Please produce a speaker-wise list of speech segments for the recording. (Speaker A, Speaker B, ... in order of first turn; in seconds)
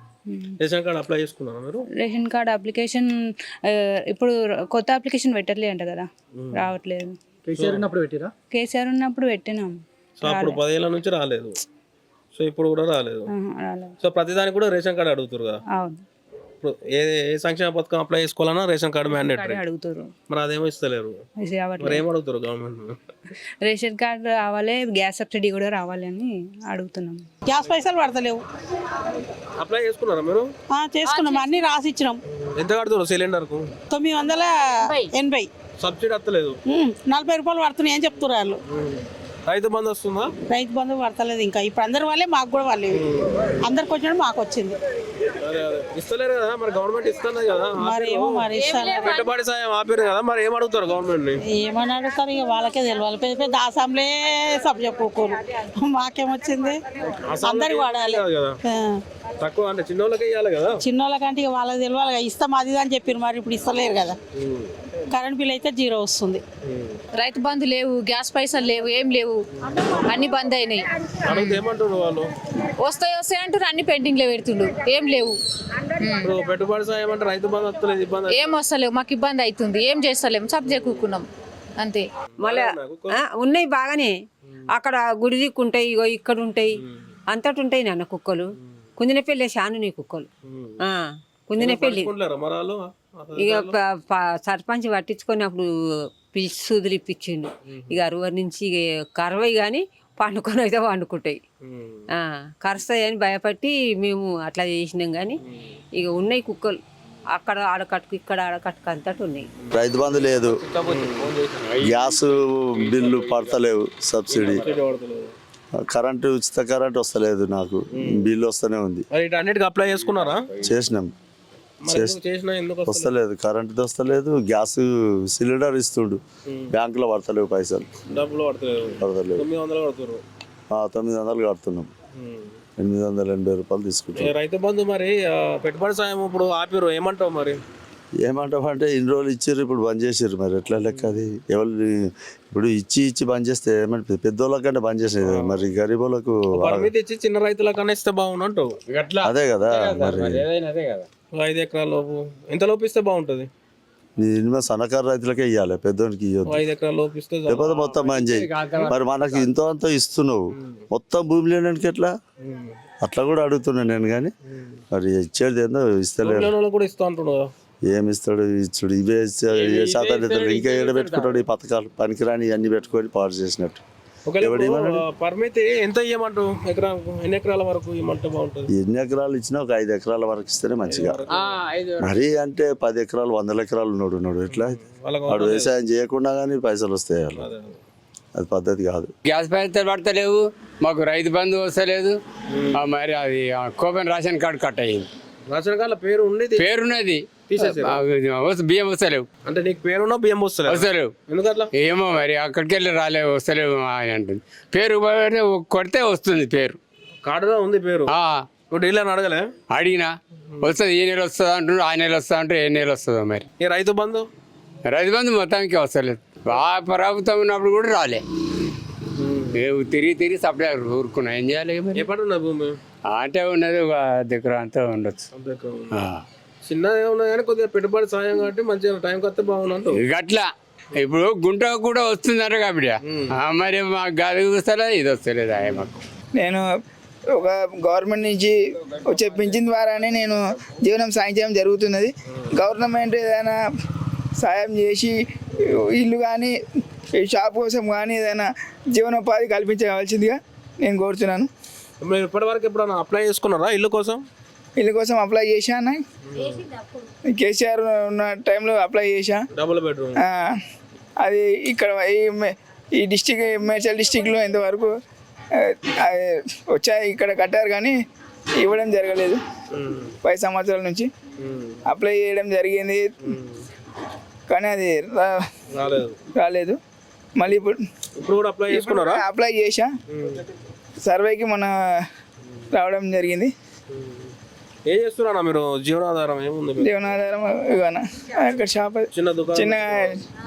Speaker A: 0.3-0.6, 2.0-7.2, 8.5-10.6, 13.3-13.9, 15.7-16.0, 19.1-20.1, 21.4-22.1, 23.6-27.3
Speaker B: 0.6-1.9, 6.4-6.7, 7.5-7.9, 10.2-11.6, 12.3-13.3, 14.0-15.6, 16.6-19.6, 20.3-21.2, 21.8-23.0, 29.6-30.5, 32.5-33.7, 35.8-36.6, 38.7-40.3, 42.9-43.3, 45.4-51.4, 57.2-58.6, 59.4-60.8, 64.4-64.7, 66.7-67.0, 71.2-72.3, 76.2-78.6, 80.7-81.0, 82.4-83.2, 90.5-90.8, 91.5-93.8, 97.7-98.0, 101.6-102.1, 109.6-111.6, 114.3-115.3, 118.0-118.3, 119.1-120.5, 121.8-123.1, 126.5-126.7, 128.1-130.2, 132.2-132.6, 134.2-137.6, 145.2-145.7, 146.5-148.7, 151.3-153.5, 156.5-157.9, 162.4-162.8, 166.2-167.5, 174.3-178.7, 180.8-181.6, 184.5-185.7, 187.3-187.8, 192.5-192.8, 195.5-196.8, 197.5-198.0, 199.5-201.7, 207.2-208.2, 208.7-209.5, 213.6-214.2, 219.2-219.6, 221.9-222.8, 225.3-226.0, 226.7-230.0, 233.1-233.4, 235.6-235.9, 252.0-254.2, 256.2-256.7, 259.5-260.2, 269.8-270.1, 271.4-271.8, 273.2-273.6, 275.8-276.2, 278.2-279.2, 280.1-280.4, 283.9-284.3, 284.9-286.9, 289.1-290.1
Speaker C: 27.5-28.4, 30.7-32.2, 33.9-35.5, 36.7-38.6, 40.5-43.0, 43.6-44.8, 47.8-49.3, 51.4-56.8, 57.4-59.0, 60.8-64.2, 65.1-66.4
Speaker D: 67.2-69.4, 70.0-71.5, 72.8-75.3, 76.0-76.3, 78.3-81.3, 81.8-82.1
Speaker E: 82.4-84.1, 84.7-86.8, 87.3-88.5, 89.0-90.3, 90.8-92.1, 93.4-95.7, 96.3-101.4, 102.2-105.4, 105.9-106.8, 107.3-109.5
Speaker F: 109.7-110.6, 111.8-114.7, 115.8-119.1, 120.6-121.1, 121.9-122.2, 122.9-127.9, 129.0-129.5, 130.7-131.9, 132.8-134.3, 138.2-146.9, 149.2-150.5, 154.2-156.7, 157.5-162.1, 163.0-164.3, 164.9-166.5, 167.9-173.8, 174.4-175.0, 178.7-181.2, 182.0-184.8, 185.3-187.5, 188.3-189.1
Speaker G: 111.7-112.0, 148.9-151.1, 157.9-159.5, 169.7-171.4, 181.3-182.0, 189.2-192.2, 192.7-195.1, 196.6-199.2, 200.7-201.1, 201.8-206.8, 208.1-208.5, 209.7-213.5, 214.8-218.2, 219.5-222.0, 223.1-225.2, 225.9-226.2, 229.9-235.9
Speaker H: 236.4-236.6, 237.3-243.6, 244.4-245.2, 245.7-246.5, 247.2-251.5, 254.8-256.0, 257.3-259.4, 260.2-260.5, 261.2-264.9, 265.6-267.9, 268.6-269.4, 270.2-271.1, 271.9-273.3, 274.5-275.4, 276.4-276.8, 277.4-277.8, 278.7-279.9, 281.0-281.7, 282.7-283.5, 286.8-290.1